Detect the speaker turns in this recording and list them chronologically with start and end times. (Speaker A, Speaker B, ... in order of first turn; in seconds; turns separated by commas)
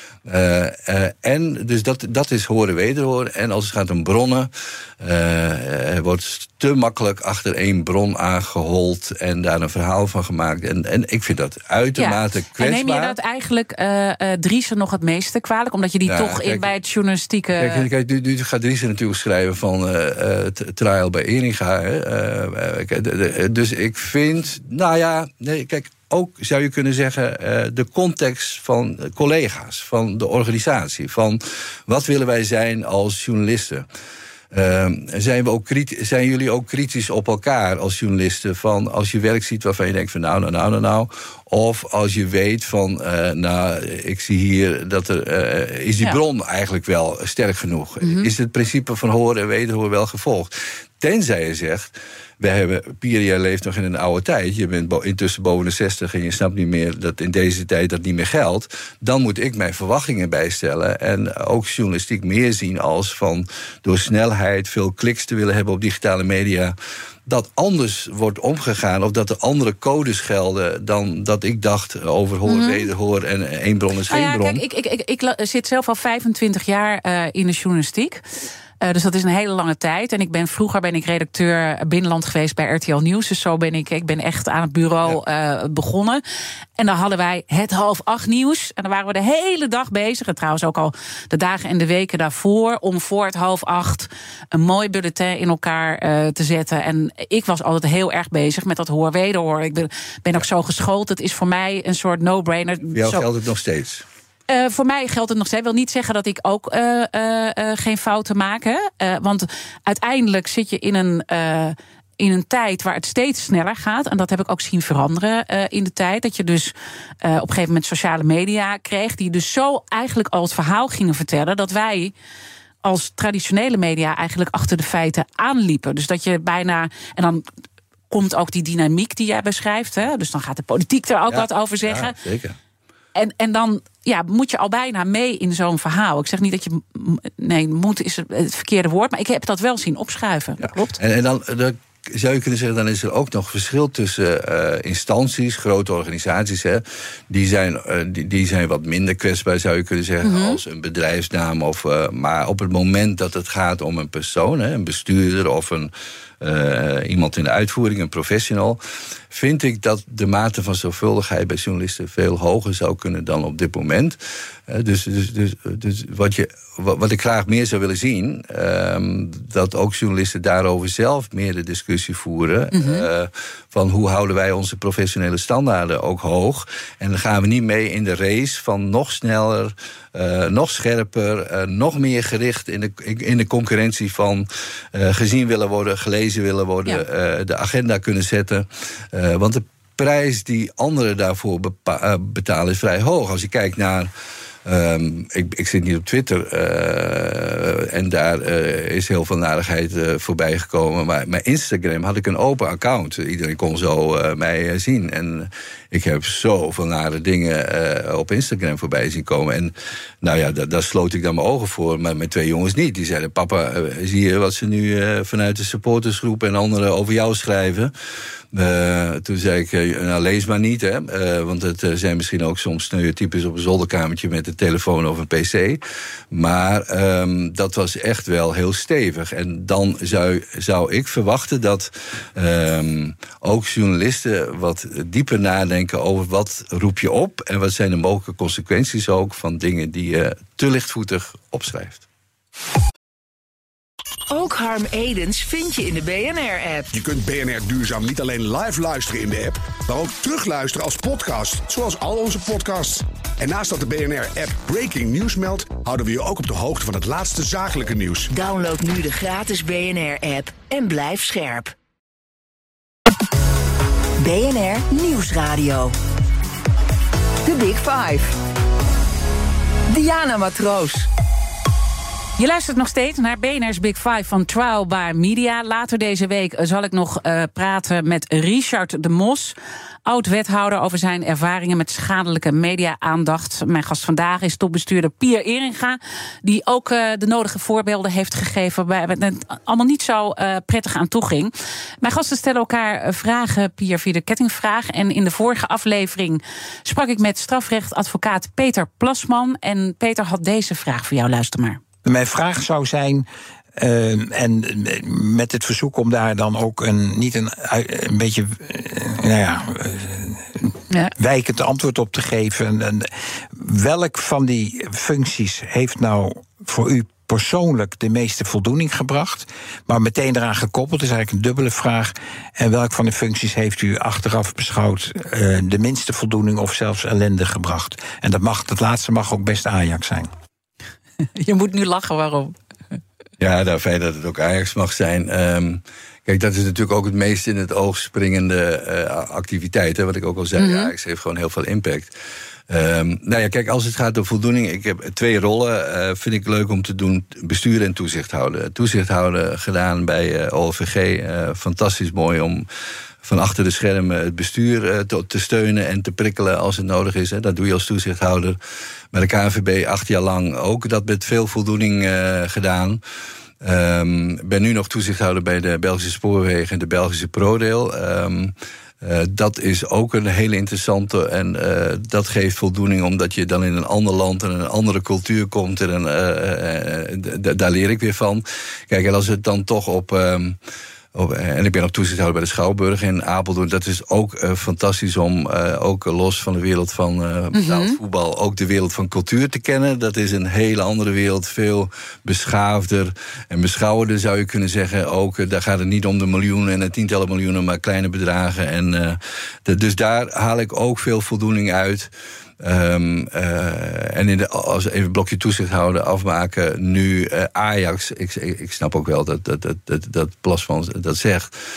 Speaker A: 0.2-13.2, Speaker B: 11.9-17.9, Speaker A: 16.0-16.7, Speaker A: 17.6-33.9, Speaker A: 34.5-66.7, Speaker B: 48.0-48.3, Speaker A: 67.2-74.6, Speaker B: 72.5-72.9, Speaker B: 74.1-78.2, Speaker B: 78.8-86.2, Speaker B: 86.8-103.2, Speaker A: 102.9-104.0, Speaker B: 104.5-122.1, Speaker B: 122.8-127.4, Speaker B: 128.1-132.2, Speaker A: 131.3-132.6, Speaker B: 133.1-141.0, Speaker A: 140.6-194.1, Speaker B: 150.2-150.6, Speaker B: 172.7-173.1, Speaker A: 194.6-217.9, Speaker A: 218.5-242.0, Speaker C: 244.3-246.9, Speaker D: 246.9-258.3, Speaker C: 258.3-261.7, Speaker C: 264.2-265.9, Speaker C: 267.4-268.3, Speaker C: 269.9-271.1, Speaker B: 272.4-301.8, Speaker E: 302.0-330.3, Speaker B: 331.4-332.5, Speaker A: 333.4-342.1, Speaker B: 340.6-340.9, Speaker A: 342.7-352.6, Speaker A: 353.2-358.6, Speaker A: 359.1-363.0, Speaker A: 363.6-380.6, Speaker A: 381.1-411.5, Speaker B: 387.5-388.0